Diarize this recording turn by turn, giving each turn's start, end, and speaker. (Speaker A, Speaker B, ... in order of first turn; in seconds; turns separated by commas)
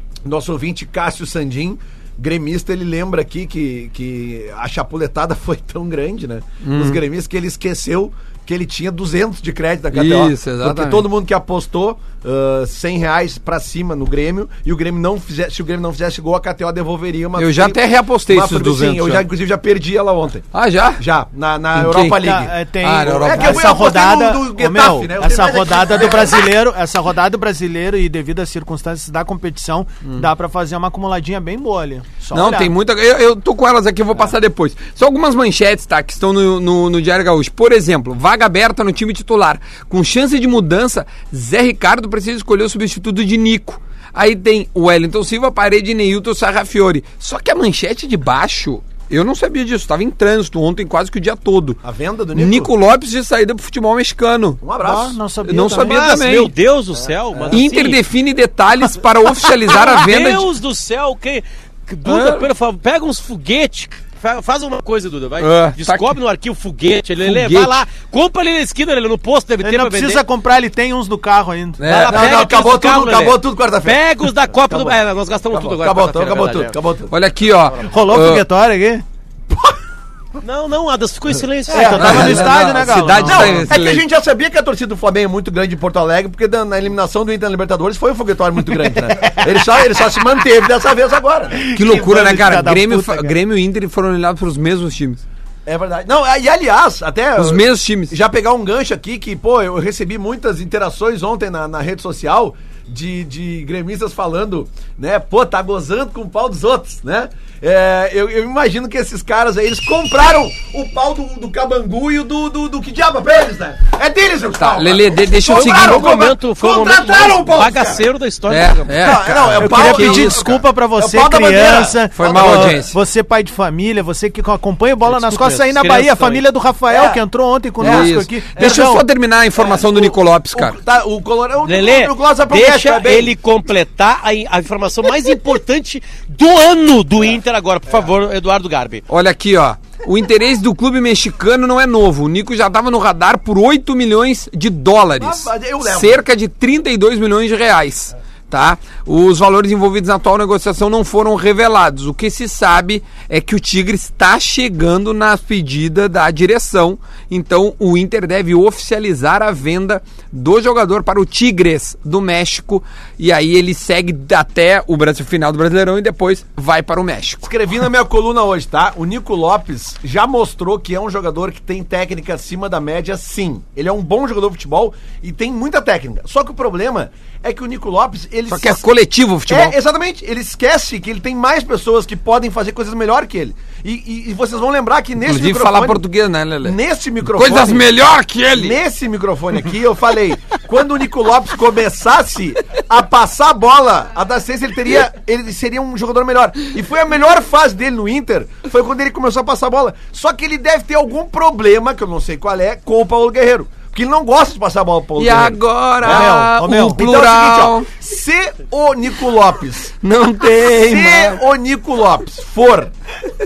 Speaker A: 0.2-20.5, Speaker B: 6.6-7.0, Speaker B: 9.9-11.1, Speaker B: 17.4-19.3, Speaker B: 20.5-21.0, Speaker A: 21.0-22.5, Speaker B: 21.7-23.7, Speaker C: 22.2-32.7, Speaker A: 23.1-26.4, Speaker B: 32.3-51.8, Speaker A: 51.8-52.7, Speaker B: 52.3-54.6, Speaker A: 54.6-55.2, Speaker C: 54.8-56.0, Speaker B: 55.4-56.5, Speaker D: 55.8-58.0, Speaker A: 57.0-57.6, Speaker B: 57.5-60.5, Speaker D: 59.7-70.2, Speaker B: 62.0-62.5, Speaker B: 65.4-66.2, Speaker B: 67.2-67.8, Speaker C: 69.6-71.8, Speaker B: 71.8-72.3, Speaker D: 71.9-76.8, Speaker A: 71.9-74.0, Speaker A: 74.7-75.0, Speaker A: 75.5-77.1, Speaker B: 77.1-78.5, Speaker C: 77.9-79.0, Speaker D: 80.4-82.4, Speaker A: 81.7-82.6, Speaker C: 81.7-83.6, Speaker B: 82.0-84.0, Speaker A: 83.2-91.6, Speaker C: 91.5-93.3, Speaker B: 91.8-95.2, Speaker A: 95.7-118.0, Speaker B: 97.4-98.2, Speaker B: 114.5-116.3, Speaker D: 115.5-119.2, Speaker B: 118.5-120.4, Speaker A: 119.0-122.8, Speaker C: 119.6-129.0, Speaker B: 122.2-123.0, Speaker D: 125.1-126.4, Speaker A: 126.9-127.2, Speaker A: 127.8-128.9, Speaker B: 127.8-130.8, Speaker A: 129.6-133.3, Speaker D: 131.6-139.0, Speaker B: 139.1-167.5, Speaker A: 145.2-146.2, Speaker A: 167.4-178.8, Speaker B: 178.5-179.8, Speaker A: 179.5-186.0, Speaker B: 185.2-188.8, Speaker A: 186.6-187.9, Speaker A: 188.5-209.9, Speaker B: 205.2-207.9, Speaker C: 206.0-207.1, Speaker B: 210.0-211.4, Speaker A: 210.8-212.9